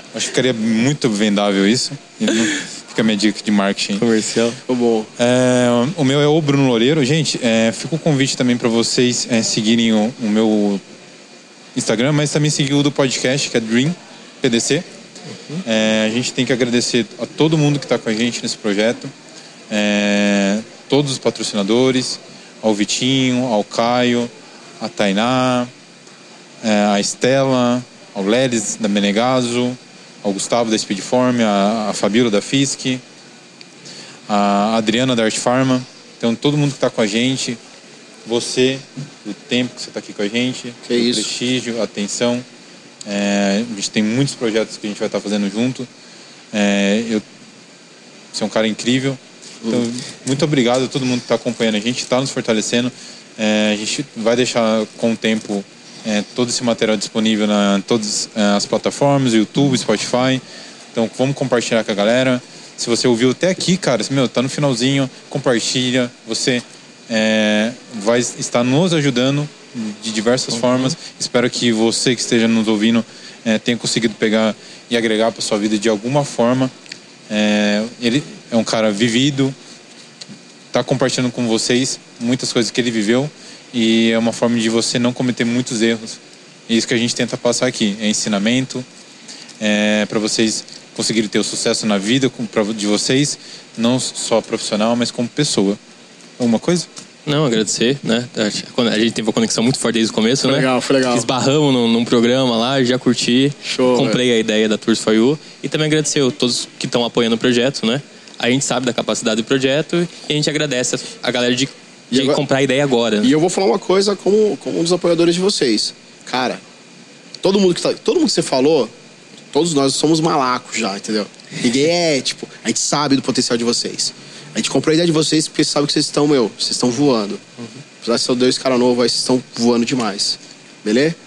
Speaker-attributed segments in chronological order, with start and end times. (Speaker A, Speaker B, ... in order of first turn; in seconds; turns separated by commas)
Speaker A: 0.1-4.0, Speaker B: 4.0-4.6, Speaker C: 4.7-5.1, Speaker A: 5.2-10.8, Speaker A: 11.8-14.9, Speaker A: 15.7-19.1, Speaker A: 19.7-25.7, Speaker A: 26.6-33.0, Speaker A: 34.3-37.6, Speaker A: 38.3-42.5, Speaker C: 40.9-41.3, Speaker A: 43.0-45.9, Speaker A: 46.5-47.2, Speaker A: 48.3-60.4, Speaker A: 60.9-76.7, Speaker A: 77.3-79.5, Speaker A: 80.7-88.9, Speaker A: 89.6-95.8, Speaker A: 96.4-96.9, Speaker B: 97.3-113.3, Speaker C: 100.4-101.3, Speaker C: 103.6-104.2, Speaker C: 112.1-112.4, Speaker C: 113.2-116.6, Speaker C: 117.4-118.9, Speaker C: 119.5-127.4, Speaker C: 128.0-131.2